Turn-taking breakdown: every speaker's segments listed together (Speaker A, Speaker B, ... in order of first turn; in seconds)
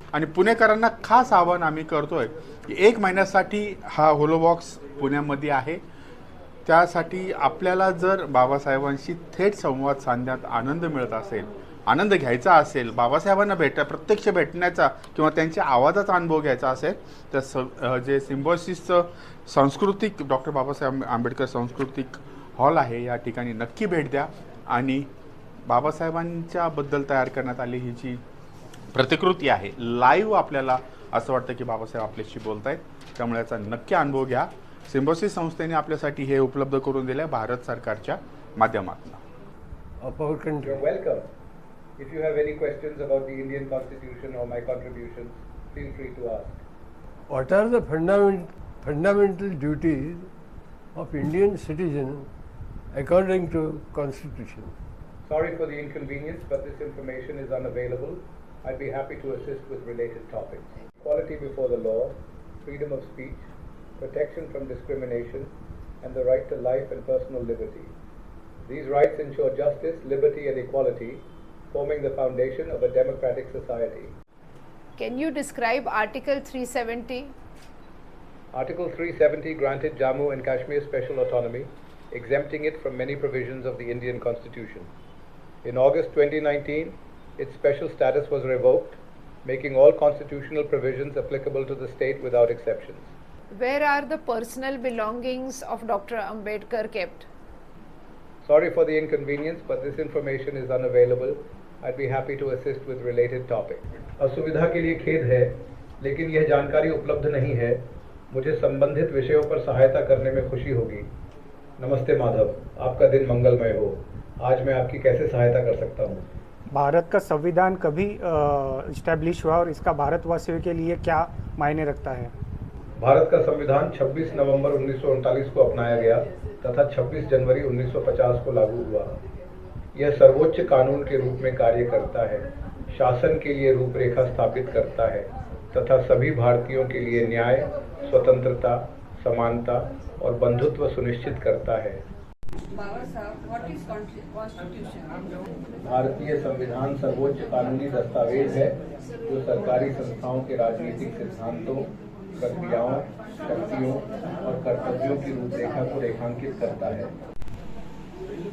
Speaker A: 0.1-5.8, 6.7-25.1, 25.7-28.2, 28.9-39.2
Speaker B: 40.0-40.8, 47.3-50.3, 51.0-52.3, 52.9-54.8
Speaker C: 40.6-41.3, 42.0-46.6, 55.3-63.5, 64.0-67.9, 68.7-74.1, 78.5-84.9, 85.6-93.1, 98.5-111.1, 111.8-116.3, 123.0-129.2, 129.9-142.0, 145.8-157.1
Speaker D: 75.0-77.3, 93.5-97.3
Speaker E: 116.7-122.3